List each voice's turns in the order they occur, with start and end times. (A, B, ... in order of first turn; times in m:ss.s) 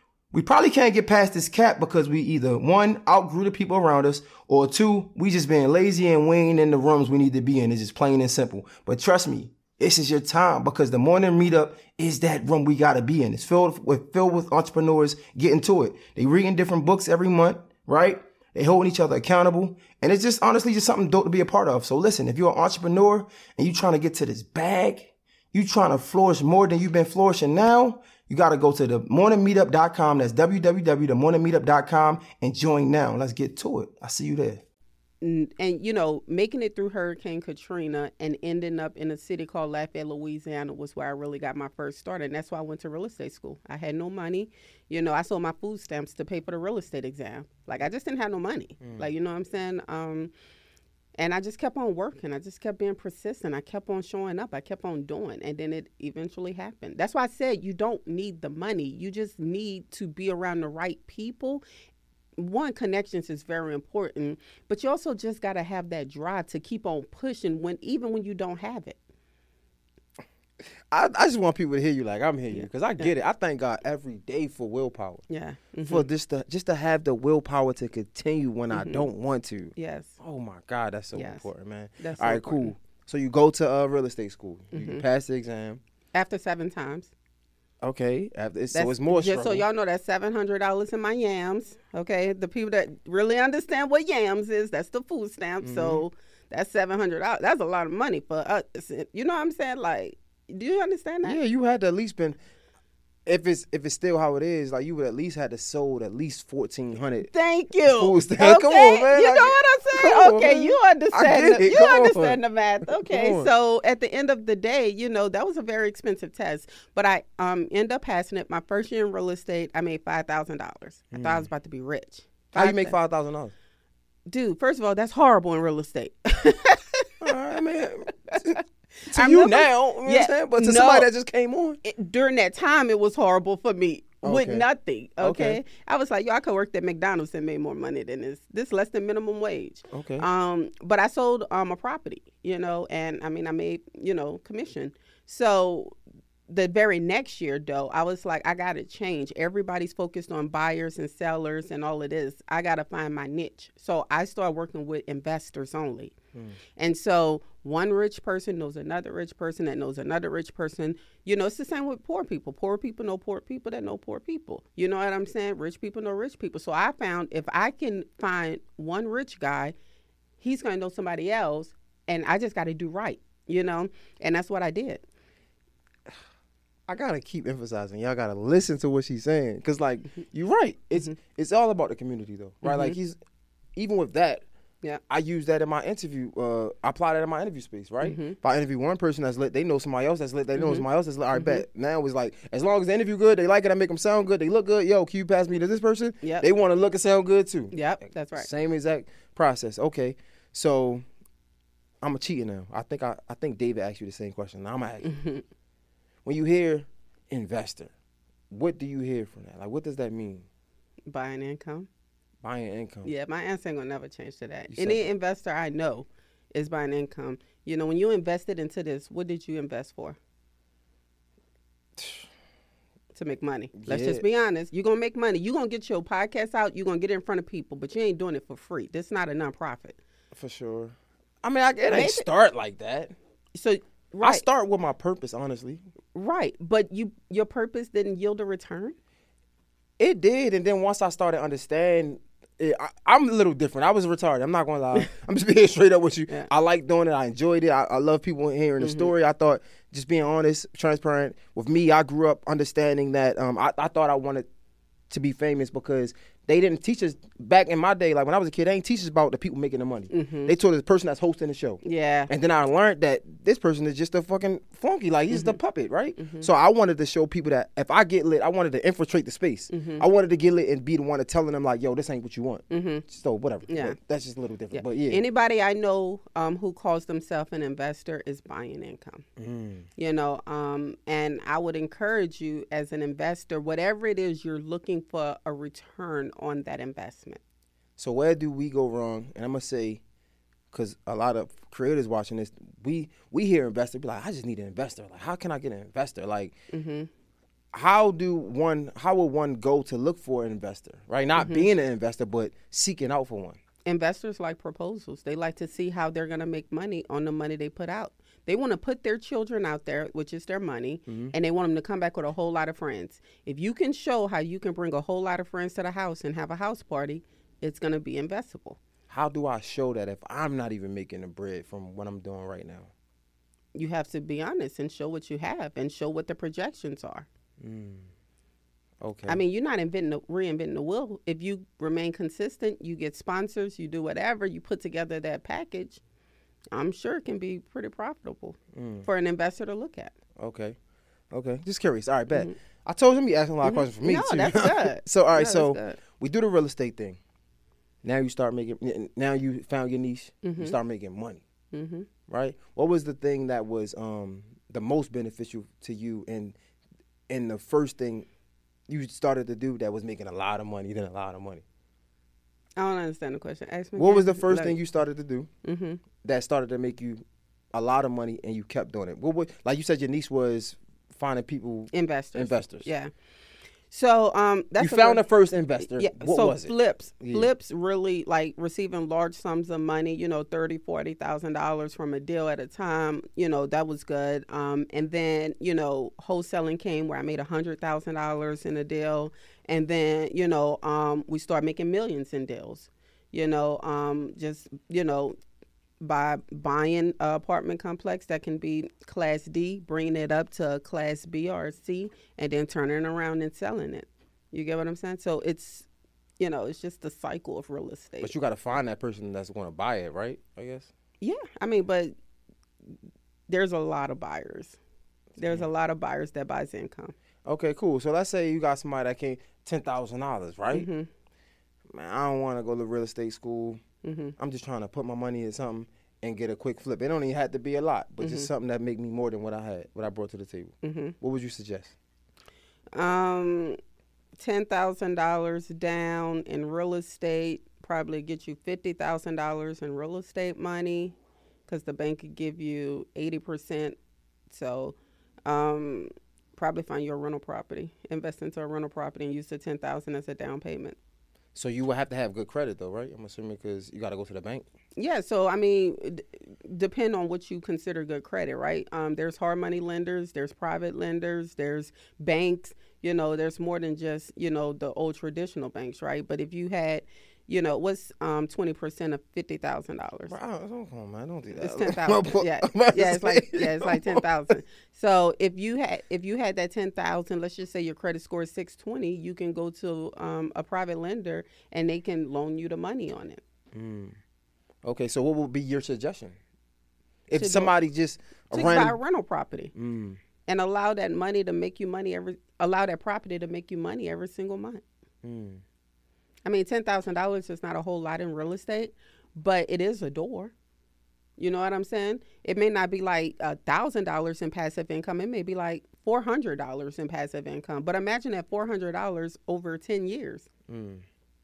0:00.3-0:34.6 A
0:35.2-0:50.3 B
0:48.8-0:49.1 A
0:51.2-1:01.6 B
1:02.4-1:09.0 B
1:10.9-1:15.2 A
1:12.5-1:13.1 B
1:15.3-1:16.1 B
1:15.8-1:25.8 A
1:18.7-1:19.0 B
1:19.8-1:20.2 B
1:21.1-1:21.4 B
1:22.0-1:22.7 B
1:24.7-1:25.0 B
1:26.1-1:27.1 B
1:27.8-1:29.6 A
1:28.7-1:41.4 B
1:35.6-1:36.0 A
1:41.2-1:42.4 A
1:43.2-1:47.3 A
1:47.2-2:03.0 B
1:47.9-1:52.4 A
1:53.0-1:53.5 A
2:01.1-2:01.5 A
2:02.5-2:03.5 A
2:04.3-2:07.2 B
2:07.2-2:11.8 A
2:08.3-2:11.1 B
2:11.8-2:25.9 B
2:14.2-2:14.6 A
2:15.2-2:15.6 A
2:19.9-2:20.3 A
2:26.5-2:36.1 B
2:36.8-2:49.7 B
2:50.4-2:55.0 B
2:56.9-3:03.2 A
3:02.6-3:03.0 B
3:03.8-3:04.4 A
3:05.1-3:17.7 A
3:08.0-3:08.4 B
3:10.5-3:11.6 B
3:16.2-3:16.5 B
3:17.7-3:18.5 B
3:18.4-3:21.0 A
3:22.0-3:25.1 A
3:25.0-3:25.4 B
3:26.2-3:27.9 A
3:28.5-3:30.5 A
3:31.1-3:31.9 B
3:32.4-3:33.1 A
3:33.0-3:40.2 B
3:34.7-3:35.0 A
3:42.0-3:42.3 A
3:43.1-3:50.0 B
3:43.8-3:44.2 A
3:50.3-3:53.1 A
3:51.9-3:52.2 B
3:53.5-3:54.4 B
3:54.2-3:55.8 A
3:56.1-3:59.0 B
4:00.0-4:14.4 A
4:08.8-4:09.1 B
4:15.1-4:35.2 A
4:20.1-4:20.5 B
4:21.8-4:22.3 B
4:25.3-4:25.6 B
4:26.2-4:26.5 B
4:29.7-4:30.0 B
4:32.7-4:33.0 B
4:33.7-4:34.0 B
4:34.7-4:39.2 B
4:39.4-4:39.9 A
4:40.0-4:47.4 B
4:48.0-4:50.0 A
4:50.7-4:56.5 A
4:56.7-4:57.1 B
4:57.7-5:03.6 A
5:01.4-5:01.7 B
5:03.8-5:18.8 B
5:11.1-5:11.3 A
5:19.1-5:22.9 A
5:23.7-5:27.3 B
5:27.6-5:28.1 A
5:29.0-5:29.4 A
5:29.3-5:36.0 B
5:36.7-5:40.1 B
5:38.7-5:39.1 A
5:40.4-5:40.8 A
5:41.3-5:47.2 A
5:43.6-5:46.0 B
5:48.0-5:51.4 A
5:50.4-5:50.8 B
5:51.7-5:52.1 B
5:52.3-5:56.5 A
5:57.3-5:58.3 A
5:58.9-6:01.6 A
6:02.8-6:04.8 B
6:04.0-6:05.5 A
6:05.6-6:06.0 B
6:06.2-6:12.9 A
6:11.9-6:13.1 B
6:13.9-6:15.2 B
6:14.8-6:17.5 A
6:15.8-6:35.4 B
6:36.0-6:45.9 B
6:46.4-6:48.3 B
6:48.2-6:50.9 A
6:51.2-6:52.1 B
6:53.5-6:54.8 B
6:55.4-6:57.1 B
6:57.4-7:00.9 A
7:00.7-7:01.1 B
7:01.9-7:03.8 A
7:04.0-7:04.3 B
7:04.4-7:11.9 A
7:08.2-7:08.5 B
7:10.8-7:11.1 B
7:12.9-7:13.8 B
7:14.4-7:21.1 B
7:21.7-7:24.0 B
7:24.5-7:31.0 B
7:31.5-7:34.6 A
7:35.0-7:50.4 B
7:50.3-7:54.2 A
7:51.6-8:03.4 B
8:03.7-8:04.2 A
8:04.8-8:06.4 A
8:07.3-8:09.0 A
8:07.4-8:07.7 B
8:08.5-8:09.7 B
8:09.7-8:10.2 A
8:10.5-8:14.8 B
8:15.2-8:15.6 A
8:16.4-8:20.5 B
8:21.4-8:30.5 B
8:30.7-8:31.0 A